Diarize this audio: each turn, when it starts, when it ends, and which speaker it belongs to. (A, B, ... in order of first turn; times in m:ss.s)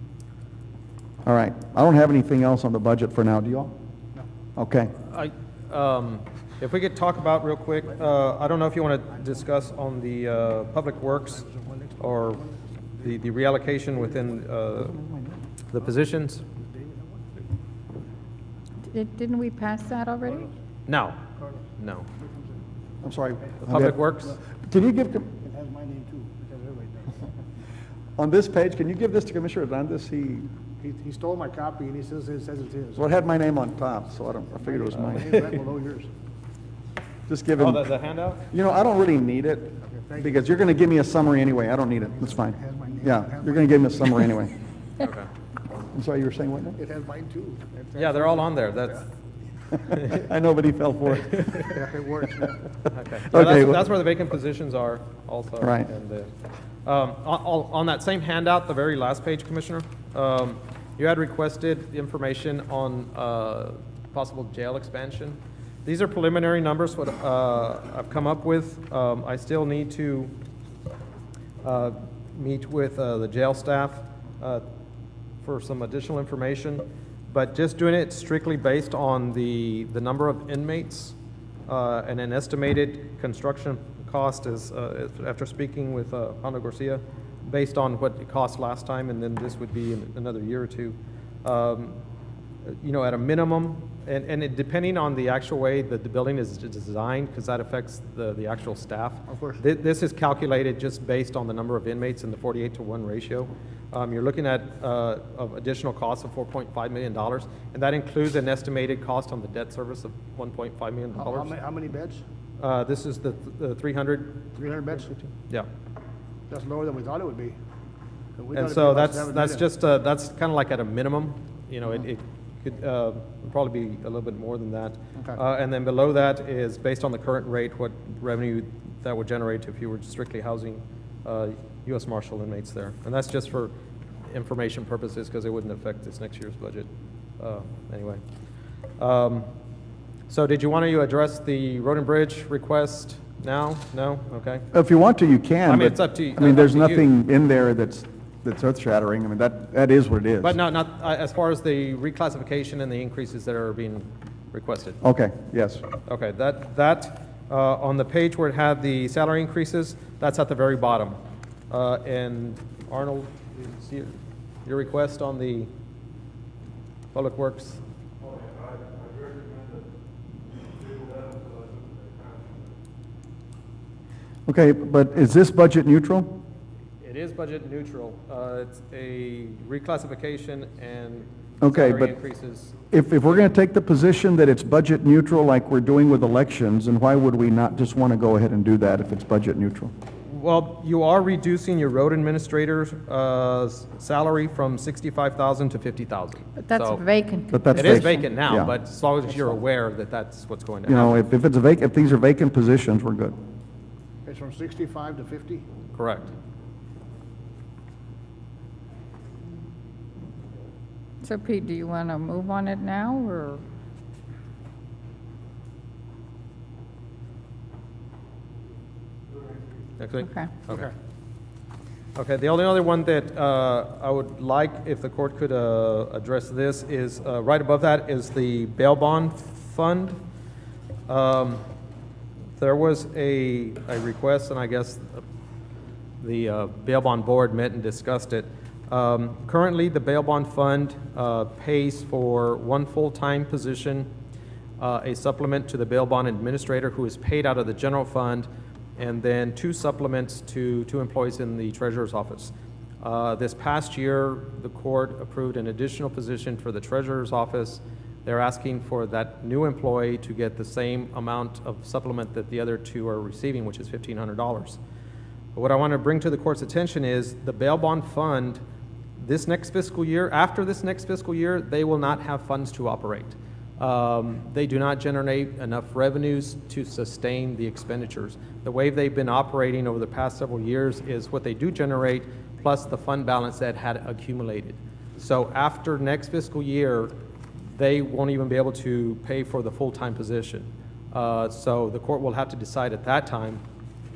0:01.2-0:03.7 A
0:04.6-0:04.9 A
0:05.0-0:11.4 B
0:11.1-0:13.1 C
0:12.0-0:12.4 B
0:13.0-0:15.0 B
0:14.8-0:15.4 A
0:15.7-0:16.4 B
0:16.5-0:17.5 C
0:18.9-0:20.5 D
0:20.9-0:21.2 B
0:21.4-0:21.6 C
0:21.8-0:22.1 B
0:22.2-0:22.6 C
0:23.0-0:24.0 A
0:23.6-0:24.4 B
0:24.6-0:25.3 A
0:25.4-0:27.2 C
0:28.2-0:30.5 A
0:30.8-0:33.0 C
0:32.9-0:35.4 A
0:34.6-0:36.1 C
0:34.9-0:35.6 B
0:37.3-0:37.8 A
0:37.6-0:38.4 B
0:38.5-0:44.5 A
0:39.8-0:40.8 C
0:42.0-0:44.2 C
0:45.0-0:45.3 B
0:45.9-0:46.8 A
0:46.8-0:48.9 C
0:48.0-0:49.1 B
0:49.9-0:50.3 B
0:49.9-0:51.7 A
0:51.2-0:51.8 B
0:51.7-0:52.6 C
0:52.8-0:56.3 B
0:53.3-0:53.9 A
0:55.6-0:55.9 A
0:56.8-1:10.3 B
1:11.6-1:14.6 B
1:15.4-1:32.0 B
1:32.8-1:51.5 B
1:39.3-1:39.6 C
1:51.2-1:52.2 C
1:52.6-1:54.5 B
1:54.5-1:55.3 C
1:56.5-1:57.6 C
1:58.4-1:59.6 C
1:58.5-2:13.7 B
2:14.3-2:16.9 B
2:17.4-2:18.2 B
2:19.0-2:19.5 B
2:20.3-2:24.7 B
2:24.7-2:30.6 A
2:25.6-2:27.1 B
2:30.4-2:35.0 B
2:35.0-2:35.8 A
2:36.0-2:41.2 B
2:41.7-2:45.7 B
2:47.1-2:47.8 B
2:54.5-2:56.4 A
2:57.0-3:03.5 B
3:01.6-3:02.1 A
3:02.9-3:09.9 A
3:10.2-3:17.0 B
3:16.6-3:18.3 D
3:17.5-3:18.7 A
3:17.7-3:21.2 B
3:20.8-3:23.3 A
3:24.2-3:25.6 C
3:25.9-3:26.3 B
3:31.2-3:33.6 D
3:40.0-3:40.9 B
3:42.2-3:50.2 B
3:51.1-3:51.6 B
3:52.6-3:55.2 B
3:56.2-4:04.1 B
4:04.8-4:24.8 B
4:25.5-4:28.6 B
4:29.2-4:47.1 B
4:47.7-4:53.6 B